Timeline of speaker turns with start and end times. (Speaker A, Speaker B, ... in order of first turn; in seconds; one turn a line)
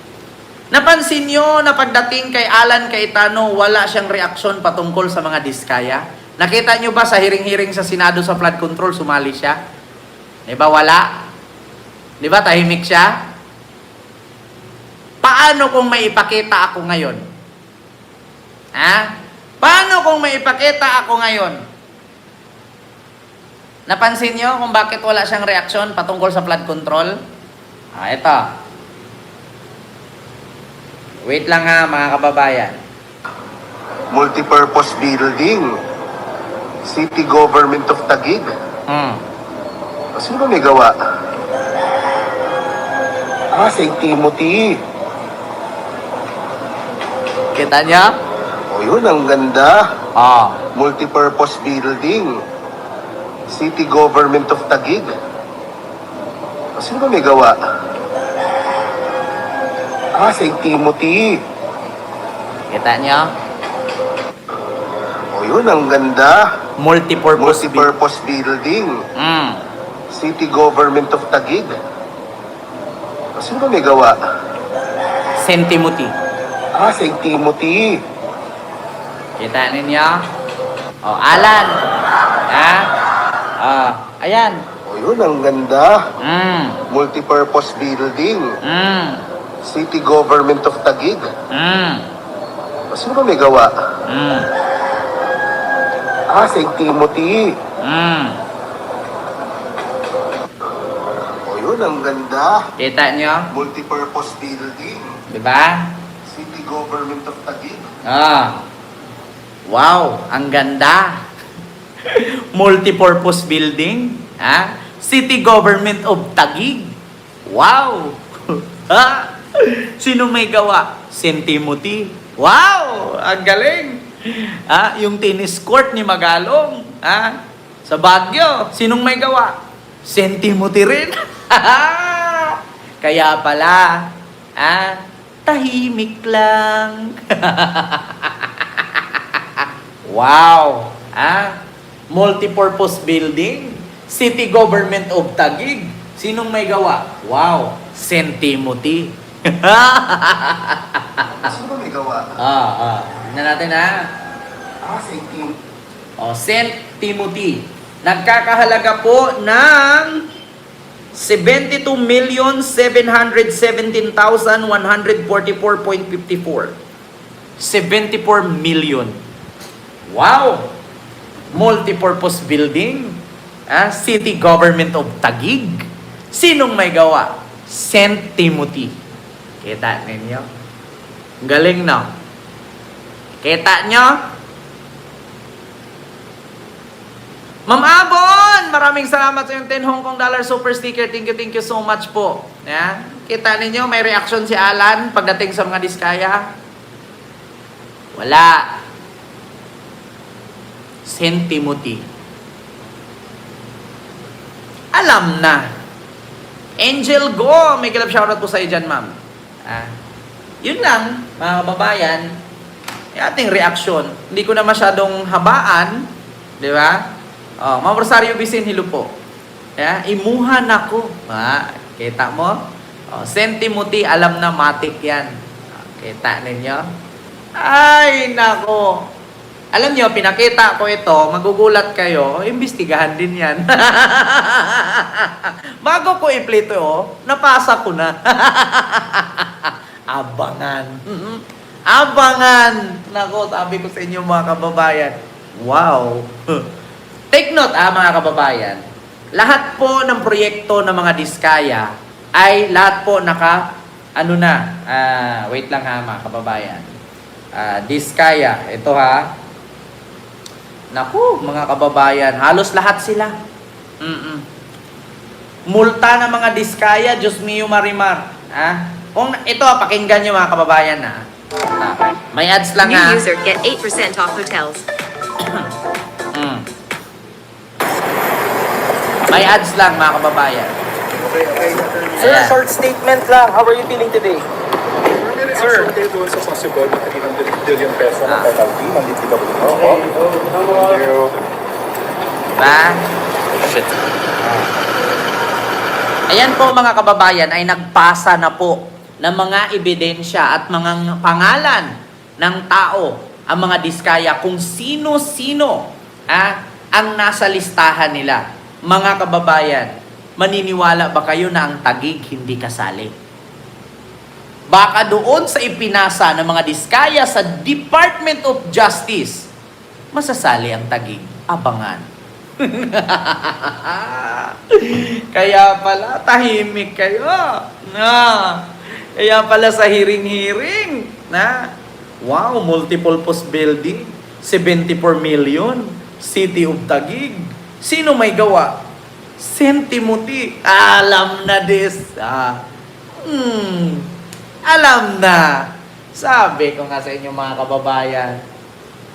Speaker A: 0.7-9.6
Speaker A: 10.5-11.1
Speaker A: 12.2-13.2
Speaker A: 15.2-17.2
Speaker A: 18.8-21.6
Speaker A: 23.9-27.2
Speaker A: 27.9-28.5
Speaker A: 31.2-32.8
Speaker B: 34.1-35.8
Speaker B: 36.9-38.5
Speaker A: 38.9-39.2
Speaker B: 40.1-40.9
Speaker B: 43.5-44.8
Speaker A: 47.5-48.1
Speaker B: 48.7-49.9
Speaker A: 50.1-50.6
Speaker B: 50.7-52.4
Speaker B: 53.5-55.1
Speaker B: 56.8-57.6
Speaker B: 60.1-61.4
Speaker A: 62.7-63.3
Speaker B: 65.3-66.5
Speaker A: 66.8-67.9
Speaker B: 67.4-69.0
Speaker A: 69.2-69.6
Speaker B: 70.1-71.7
Speaker B: 73.4-74.2
Speaker A: 75.4-76.1
Speaker B: 76.8-78.0
Speaker A: 79.4-80.2
Speaker A: 81.0-81.8
Speaker A: 82.5-82.9
Speaker A: 83.6-84.6
Speaker B: 84.9-86.0
Speaker A: 86.2-86.8
Speaker B: 86.9-88.5
Speaker A: 88.6-89.2
Speaker B: 89.6-91.3
Speaker A: 91.5-92.1
Speaker B: 92.9-93.7
Speaker A: 94.0-94.5
Speaker B: 96.3-97.5
Speaker A: 97.8-98.4
Speaker B: 101.4-102.6
Speaker A: 102.8-103.5
Speaker B: 103.5-105.1
Speaker A: 105.3-106.0
Speaker B: 106.3-107.9
Speaker A: 108.0-108.6
Speaker A: 109.7-111.2
Speaker A: 112.0-116.9
Speaker A: 117.5-141.6
Speaker A: 142.1-151.4
Speaker B: 151.4-152.3
Speaker A: 152.4-154.1
Speaker B: 154.8-155.6
Speaker A: 156.2-160.2
Speaker A: 161.1-166.8
Speaker A: 167.6-169.2
Speaker A: 170.1-170.7
Speaker A: 171.5-178.9
Speaker A: 179.6-180.5
Speaker A: 181.4-182.1
Speaker A: 183.4-184.2
Speaker A: 187.7-196.5
Speaker A: 198.2-198.7
Speaker A: 201.1-202.1
Speaker A: 204.9-205.7
Speaker A: 206.8-209.9
Speaker A: 210.6-212.3
Speaker A: 213.1-216.1
Speaker A: 216.6-217.0
Speaker A: 217.6-219.1
Speaker A: 219.8-222.6
Speaker A: 223.1-226.9
Speaker A: 227.6-229.1
Speaker A: 229.7-246.7
Speaker A: 247.3-248.8
Speaker A: 249.3-256.9
Speaker A: 257.6-259.3
Speaker A: 260.9-263.4
Speaker A: 264.0-264.4
Speaker A: 265.7-271.2
Speaker A: 271.8-273.2
Speaker C: 272.8-274.9
Speaker A: 275.4-275.7
Speaker A: 276.3-276.6
Speaker A: 279.3-280.7
Speaker D: 281.4-284.4
Speaker E: 281.6-282.4
Speaker A: 282.2-282.6
Speaker E: 285.2-290.1
Speaker D: 285.6-285.9
Speaker A: 288.2-288.6
Speaker D: 289.7-291.1
Speaker E: 290.6-291.3
Speaker A: 292.6-293.0
Speaker A: 294.4-294.7
Speaker A: 296.3-301.9
Speaker A: 302.4-313.1
Speaker A: 314.7-319.5
Speaker A: 320.1-322.1
Speaker A: 322.6-331.7
Speaker A: 332.2-338.8
Speaker A: 339.4-342.6
Speaker A: 343.2-344.1
Speaker A: 344.6-348.4